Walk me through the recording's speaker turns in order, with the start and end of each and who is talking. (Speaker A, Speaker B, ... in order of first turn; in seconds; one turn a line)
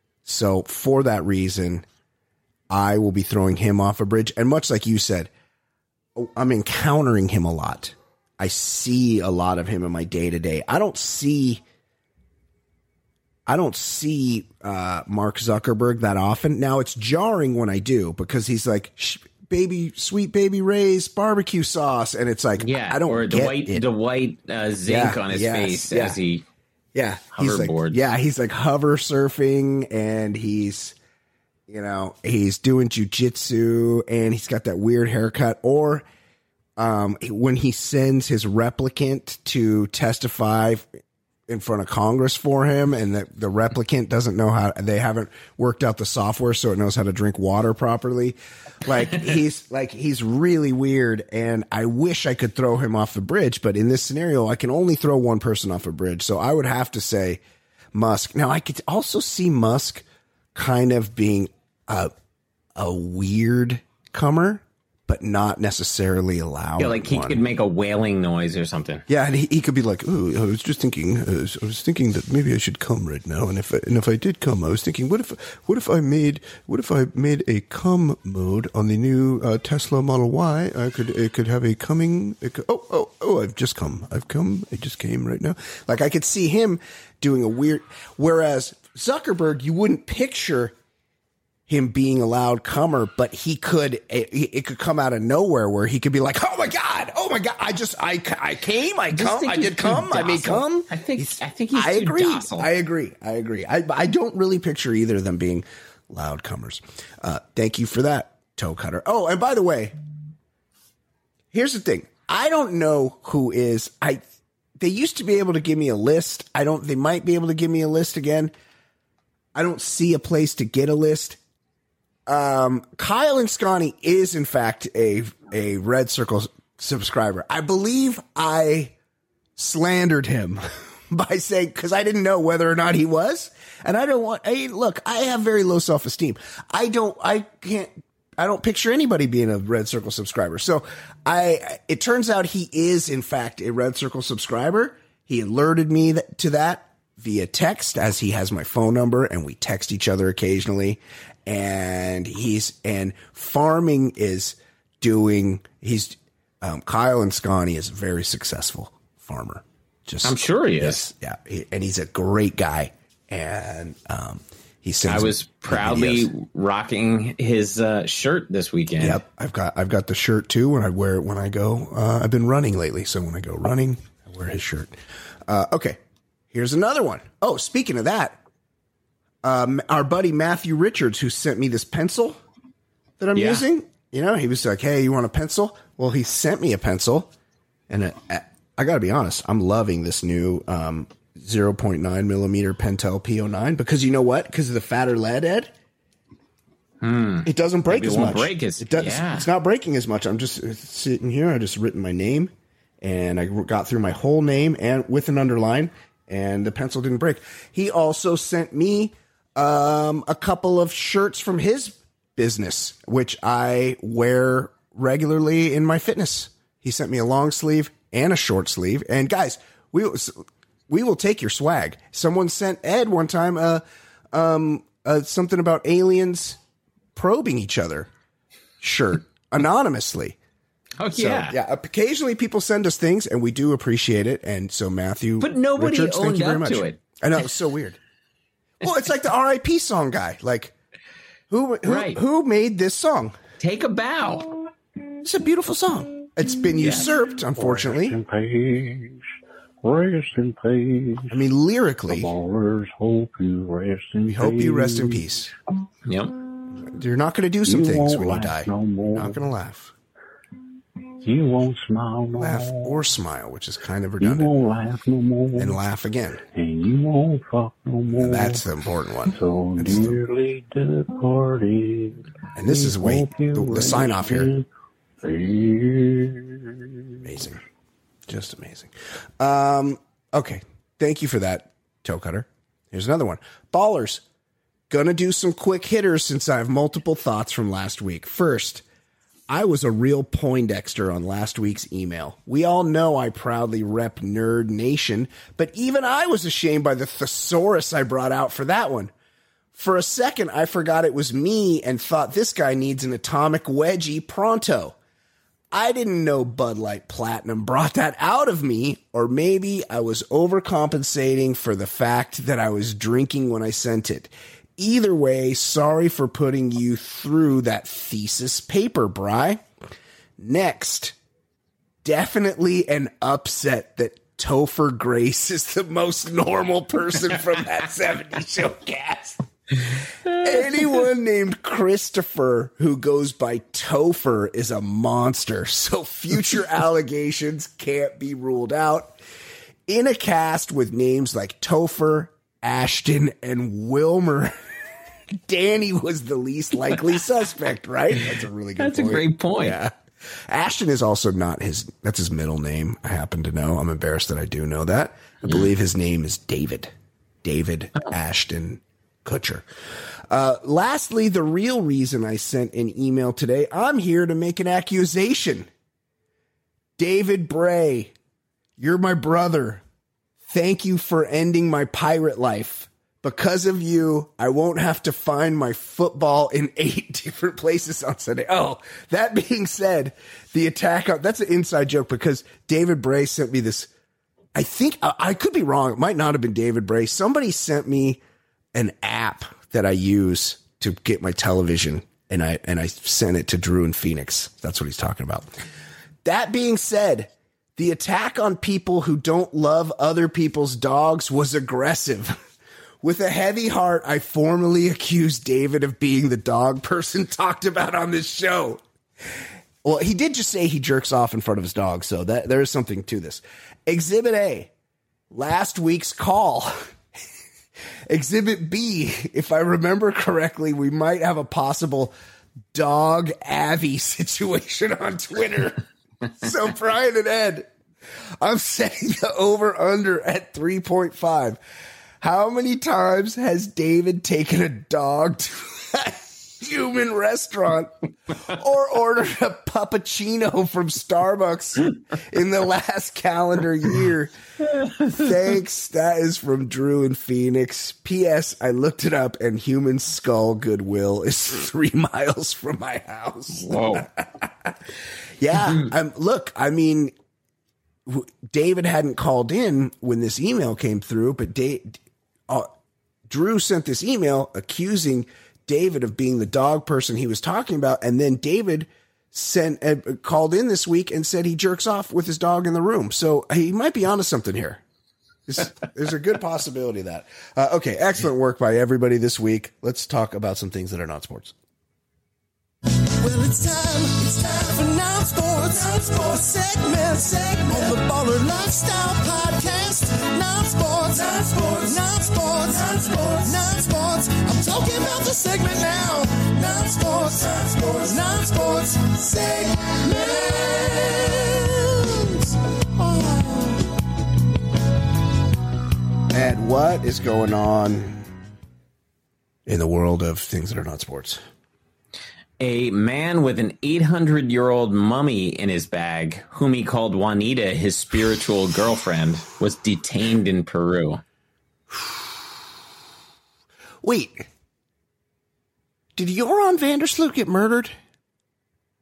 Speaker A: 0.2-1.9
Speaker A: 2.7-5.3
Speaker A: 6.2-11.6
Speaker A: 13.5-23.9
Speaker B: 22.6-26.4
Speaker A: 24.9-26.2
Speaker A: 26.9-31.0
Speaker B: 27.3-28.0
Speaker A: 31.7-36.0
Speaker A: 36.8-40.9
Speaker A: 41.5-57.4
Speaker A: 57.9-60.0
Speaker A: 60.5-62.1
Speaker A: 62.8-67.4
Speaker B: 66.8-69.0
Speaker A: 69.1-90.7
Speaker A: 91.7-110.0
Speaker B: 99.1-102.7
Speaker A: 111.5-114.2
Speaker A: 114.8-118.5
Speaker A: 119.5-121.4
Speaker A: 122.3-128.9
Speaker A: 129.6-166.3
Speaker B: 160.2-161.1
Speaker B: 165.1-169.2
Speaker A: 169.0-174.9
Speaker A: 175.5-176.0
Speaker A: 176.5-178.4
Speaker A: 179.4-182.4
Speaker A: 183.2-187.3
Speaker B: 183.3-183.7
Speaker A: 187.9-195.7
Speaker B: 197.0-199.5
Speaker A: 197.4-226.6
Speaker A: 227.2-228.1
Speaker A: 228.8-230.4
Speaker B: 231.0-231.6
Speaker A: 231.1-238.0
Speaker B: 235.4-237.0
Speaker A: 238.8-240.7
Speaker A: 241.5-243.4
Speaker B: 241.8-242.2
Speaker B: 243.6-244.6
Speaker A: 245.2-248.2
Speaker B: 246.8-247.1
Speaker C: 247.3-249.2
Speaker C: 249.8-251.4
Speaker A: 251.3-252.3
Speaker C: 252.1-255.4
Speaker A: 254.3-255.5
Speaker B: 256.1-256.4
Speaker A: 256.8-259.9
Speaker C: 257.6-259.5
Speaker C: 261.2-263.2
Speaker A: 262.4-264.5
Speaker C: 264.2-265.8
Speaker A: 265.6-266.4
Speaker C: 266.5-274.7
Speaker A: 268.2-270.2
Speaker A: 272.6-274.5
Speaker C: 275.2-277.3
Speaker A: 277.2-277.6
Speaker A: 278.3-284.2
Speaker A: 284.9-288.8
Speaker A: 289.5-299.1
Speaker A: 299.7-305.0
Speaker A: 305.7-319.6
Speaker A: 320.4-321.2
Speaker A: 322.0-339.2
Speaker A: 339.9-344.6
Speaker A: 345.3-349.9
Speaker B: 348.8-349.8
Speaker A: 350.5-359.7
Speaker A: 360.3-365.7
Speaker A: 367.0-368.1
Speaker A: 368.8-369.8
Speaker A: 370.5-383.9
Speaker A: 384.5-388.2
Speaker A: 388.7-395.5
Speaker A: 396.2-402.4
Speaker A: 403.0-408.8
Speaker A: 409.8-414.7
Speaker A: 415.3-416.8
Speaker A: 418.1-422.1
Speaker A: 422.7-425.9
Speaker A: 426.4-427.7
Speaker A: 428.4-431.6
Speaker A: 432.2-444.3
Speaker A: 445.0-457.1
Speaker B: 453.5-454.1
Speaker A: 458.1-462.7
Speaker A: 463.3-474.8
Speaker A: 475.5-481.6
Speaker D: 483.2-503.8
Speaker A: 506.3-508.2
Speaker A: 509.7-511.4
Speaker B: 512.6-521.2
Speaker A: 521.9-522.3
Speaker A: 524.0-524.5
Speaker A: 526.1-528.0